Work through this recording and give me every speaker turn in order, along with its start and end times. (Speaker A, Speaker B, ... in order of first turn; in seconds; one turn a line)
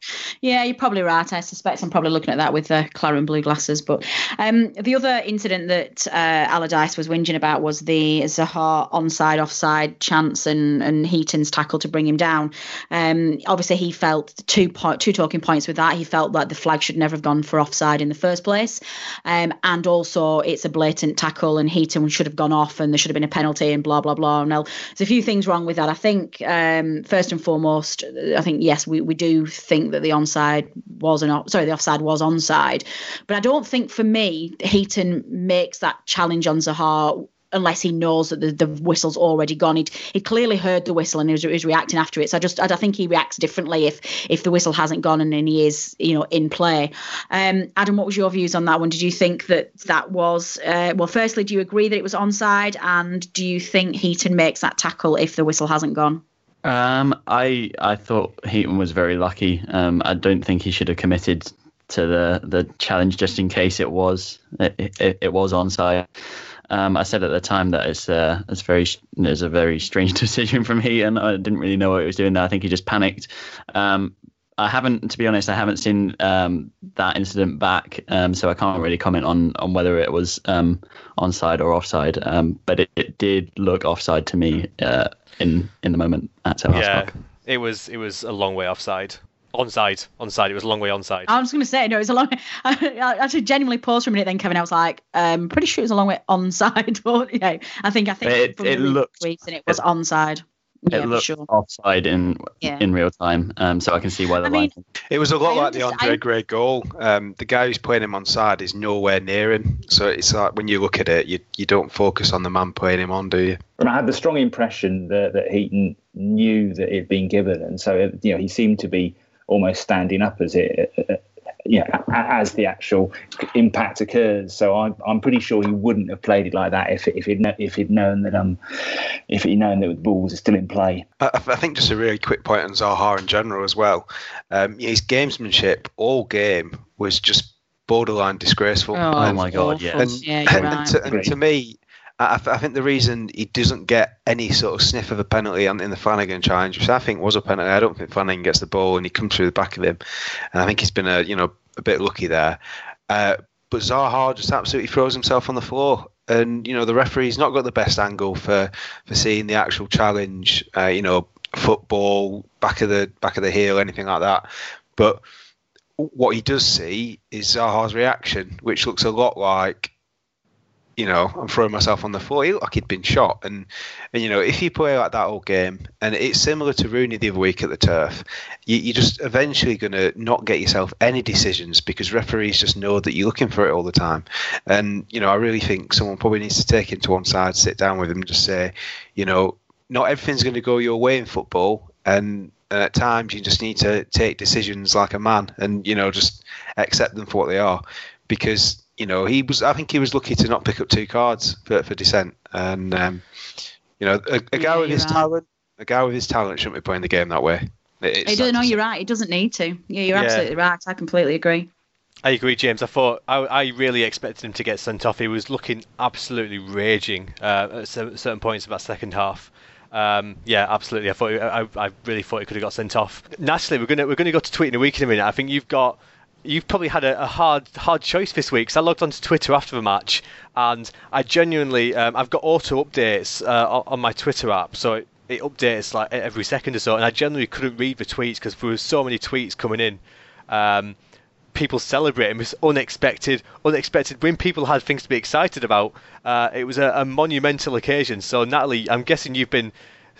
Speaker A: 0.4-56.2
Speaker B: 56.6-66.1
Speaker B: 66.7-87.1
Speaker C: 86.7-91.3
Speaker A: 91.3-101.5
Speaker B: 98.2-99.8
Speaker B: 100.9-104.8
Speaker A: 104.4-104.7
Speaker D: 105.1-113.6
Speaker A: 105.5-106.2
Speaker E: 113.8-131.0
Speaker D: 131.2-139.4
Speaker A: 138.9-140.9
Speaker B: 139.2-140.7
Speaker D: 140.0-150.0
Speaker E: 141.1-141.3
Speaker D: 150.5-152.6
Speaker D: 153.1-165.2
Speaker D: 166.0-169.9
Speaker D: 171.0-203.2
Speaker D: 204.0-208.8
Speaker A: 204.5-205.3
Speaker A: 208.2-211.7
Speaker C: 210.1-210.5
Speaker C: 212.2-240.9
Speaker C: 241.5-249.7